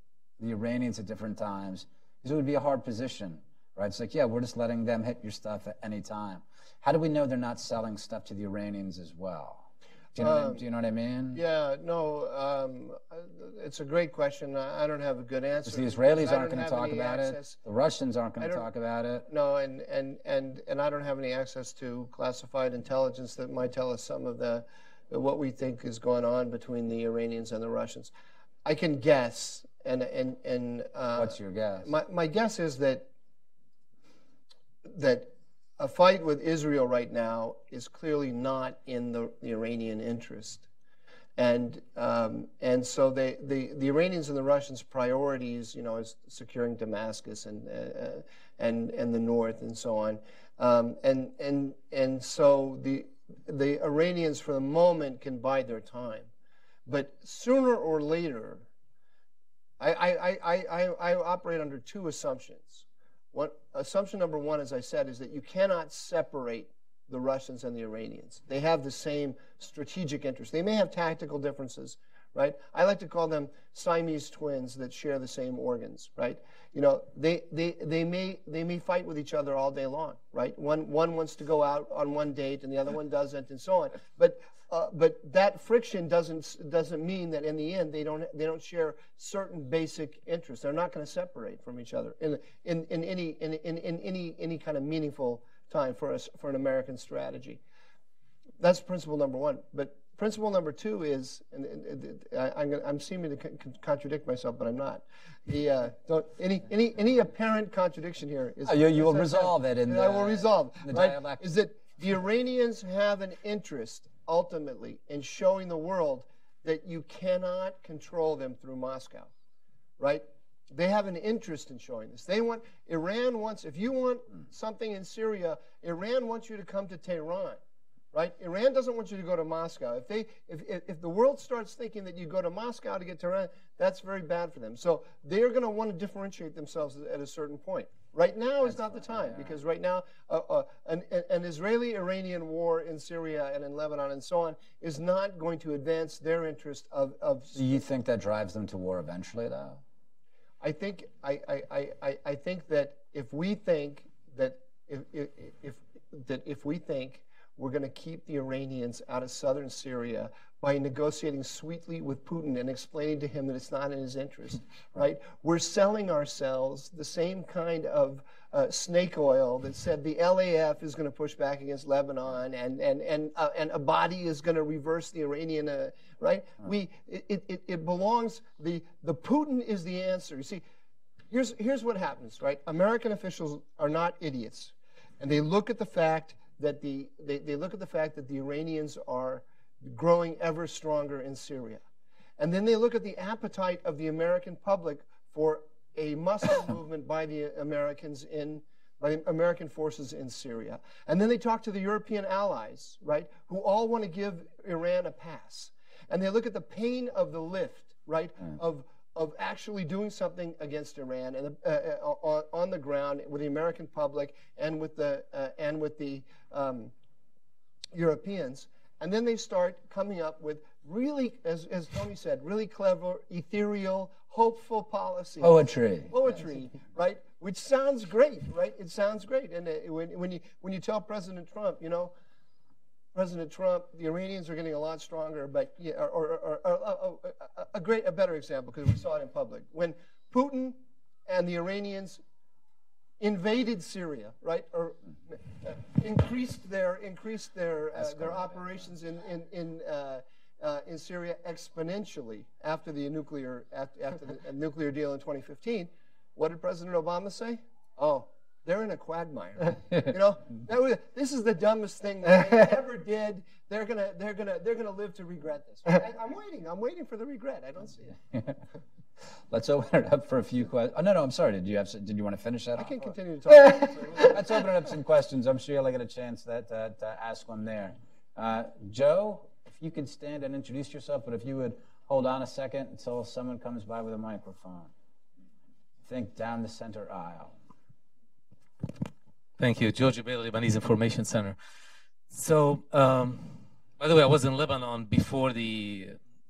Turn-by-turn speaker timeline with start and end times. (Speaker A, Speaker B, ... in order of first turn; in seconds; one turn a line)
Speaker A: 0.4-11.4
Speaker B: 10.2-10.6
Speaker B: 11.3-17.6
Speaker A: 15.7-19.3
Speaker B: 18.4-18.7
Speaker B: 19.3-28.1
Speaker B: 28.6-33.1
Speaker A: 31.2-31.9
Speaker B: 34.9-40.7
Speaker B: 41.4-56.3
Speaker B: 56.9-58.7
Speaker B: 59.8-97.6
Speaker B: 98.6-119.3
Speaker A: 108.6-111.4
Speaker B: 120.0-127.6
Speaker B: 128.1-147.6
Speaker A: 138.6-139.6
Speaker A: 147.5-149.8
Speaker B: 150.6-180.6
Speaker B: 181.3-191.8
Speaker B: 192.4-216.9
Speaker B: 217.9-225.6
Speaker A: 225.4-226.2
Speaker B: 226.1-232.1
Speaker B: 233.2-242.2
Speaker B: 243.2-268.2
Speaker A: 248.0-248.7
Speaker A: 268.3-268.6
Speaker A: 269.5-273.1
Speaker B: 272.8-274.4
Speaker A: 274.2-284.9
Speaker A: 286.1-287.6
Speaker C: 289.6-291.6
Speaker C: 292.3-296.2